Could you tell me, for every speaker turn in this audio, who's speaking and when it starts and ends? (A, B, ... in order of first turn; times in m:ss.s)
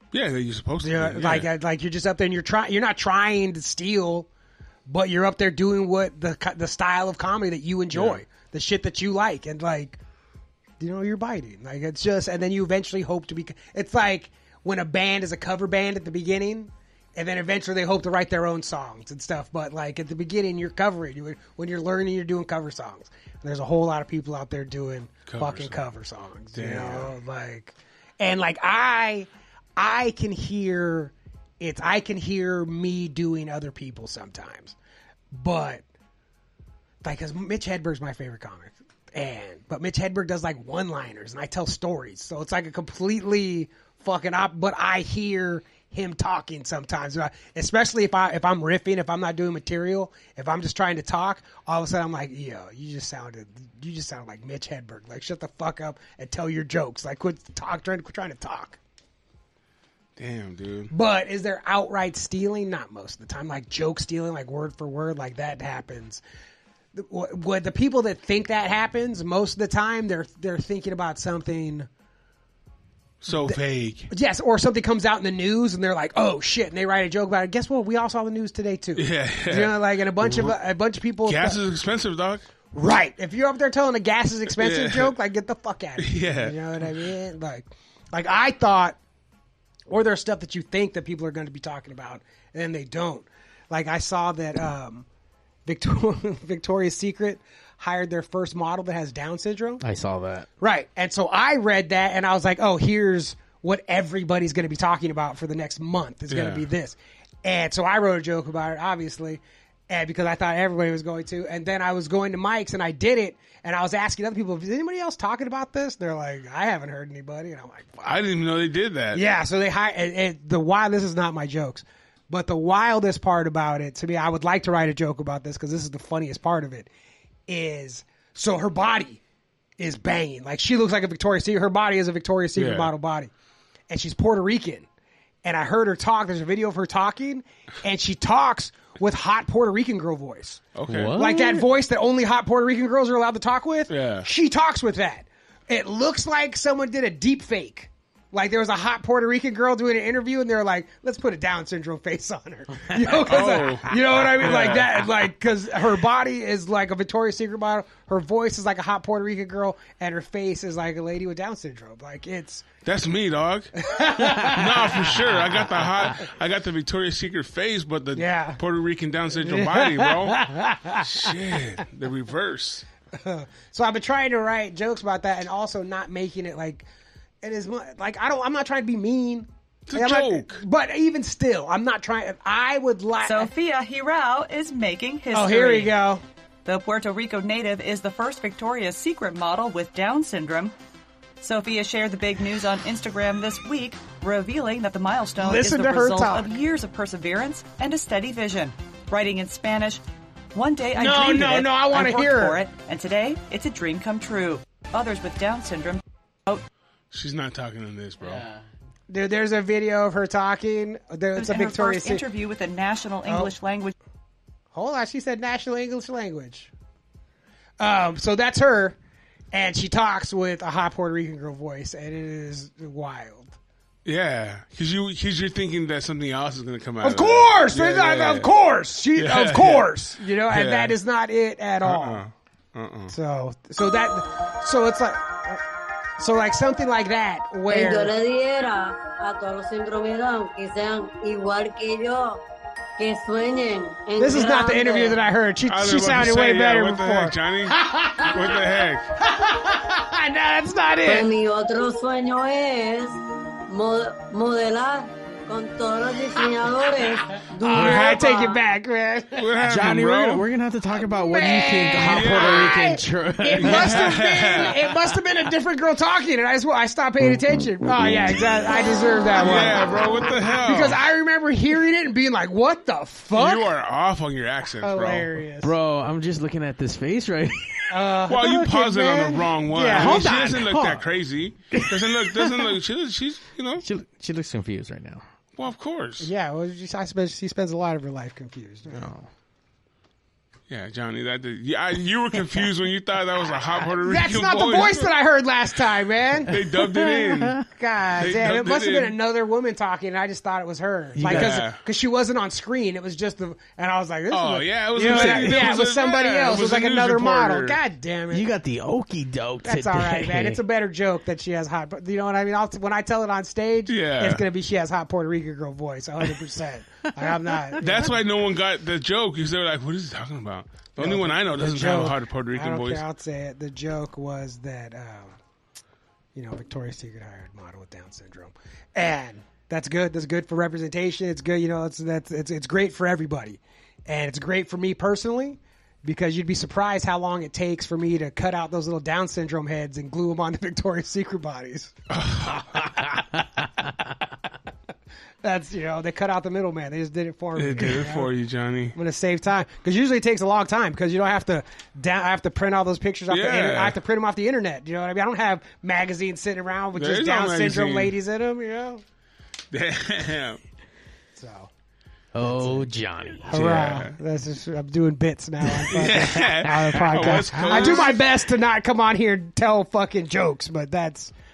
0:00.1-0:01.5 A
0:00.8-0:04.3 B
0:04.9-0:10.0 B
0:07.9-0:08.2 A
0:10.8-0:34.8 B
0:25.3-0:25.8 A
0:26.6-0:27.1 A
0:35.3-0:35.8 B
0:37.0-0:58.8 B
1:00.2-1:00.9 A
1:00.9-1:06.2 B
1:06.9-1:11.9 B
1:13.2-1:14.1 A
1:13.3-1:21.6 B
1:19.0-1:20.6 A
1:21.3-1:22.4 A
1:22.7-1:29.0 B
1:24.6-1:25.1 A
1:26.0-1:26.6 A
1:29.9-1:35.1 B
1:35.7-1:39.8 B
1:39.8-1:40.5 C
1:40.6-1:58.2 B
1:46.3-1:46.7 A
1:58.0-1:59.2 A
1:59.1-2:06.9 B
2:07.5-2:09.2 B
2:09.8-2:13.3 B
2:12.6-2:12.9 A
2:13.9-2:14.9 B
2:15.4-2:42.6 B
2:20.7-2:21.2 A
2:20.9-2:21.7 C
2:23.9-2:24.3 A
2:33.1-2:35.0 A
2:42.8-2:52.9 A
2:43.8-2:45.8 B
2:48.2-2:48.6 B
2:49.4-2:51.3 B
2:53.2-2:56.9 B
2:57.4-3:03.5 B
2:59.9-3:00.6 A
3:03.2-3:05.9 D
3:05.3-3:06.2 B
3:06.6-3:10.7 D
3:11.4-3:20.0 D
3:15.4-3:16.5 B
3:20.5-3:26.6 D
3:21.0-3:22.6 B
3:27.1-3:28.5 A
3:28.2-3:28.6 C
3:29.1-3:32.2 B
3:31.4-3:33.9 D
3:33.3-3:33.5 B
3:34.7-3:36.7 B
3:37.8-3:39.0 B
3:39.5-3:43.6 B
3:44.0-3:48.5 A
3:47.0-3:52.2 B
3:49.2-3:49.9 A
3:50.5-3:51.0 A
3:51.8-3:53.1 A
3:53.1-3:55.6 B
3:56.2-3:58.1 B
3:57.7-4:02.4 E
4:03.0-4:05.2 E
4:04.2-4:11.3 B
4:05.7-4:09.1 A
4:11.0-4:13.2 E
4:13.7-4:18.6 E
4:17.6-4:19.5 B
4:19.4-4:20.4 A
4:19.6-4:24.9 C
4:21.0-4:29.9 B
4:22.0-4:22.8 A
4:23.6-4:24.8 A
4:27.2-4:28.6 C
4:29.4-4:31.0 A
4:30.6-4:33.7 B
4:33.3-4:35.3 A
4:34.7-4:35.7 B
4:35.6-4:38.0 C
4:37.9-4:40.3 B
4:38.3-4:43.9 A
4:39.9-4:41.1 C
4:41.7-4:42.8 C
4:43.8-4:45.2 C
4:45.6-4:46.3 A
4:46.2-4:49.1 B
4:48.9-4:49.3 C
4:50.7-4:55.1 A
4:53.8-4:56.6 B
4:56.5-4:57.6 A
4:56.6-4:57.6 C
4:57.6-5:08.5 B
4:58.2-4:59.2 A
5:01.2-5:01.6 C
5:01.2-5:01.8 A
5:04.3-5:07.8 A
5:05.0-5:05.8 C
5:08.3-5:10.6 C
5:09.6-5:18.2 B
5:13.9-5:14.4 A
5:17.2-5:18.1 C
5:17.8-5:23.0 A
5:21.0-5:25.4 B
5:26.4-5:42.0 B
5:42.1-5:43.2 A
5:42.8-5:43.7 B
5:45.4-5:48.3 B
5:47.6-5:49.0 A
5:49.0-5:59.0 B
5:53.3-5:54.0 A
5:57.0-5:58.1 A
5:59.7-6:00.6 A
6:01.4-6:01.7 B
6:02.3-6:03.8 C
6:02.4-6:02.9 B
6:03.5-6:11.3 B
6:03.5-6:04.2 A
6:05.8-6:08.2 C
6:05.9-6:08.2 A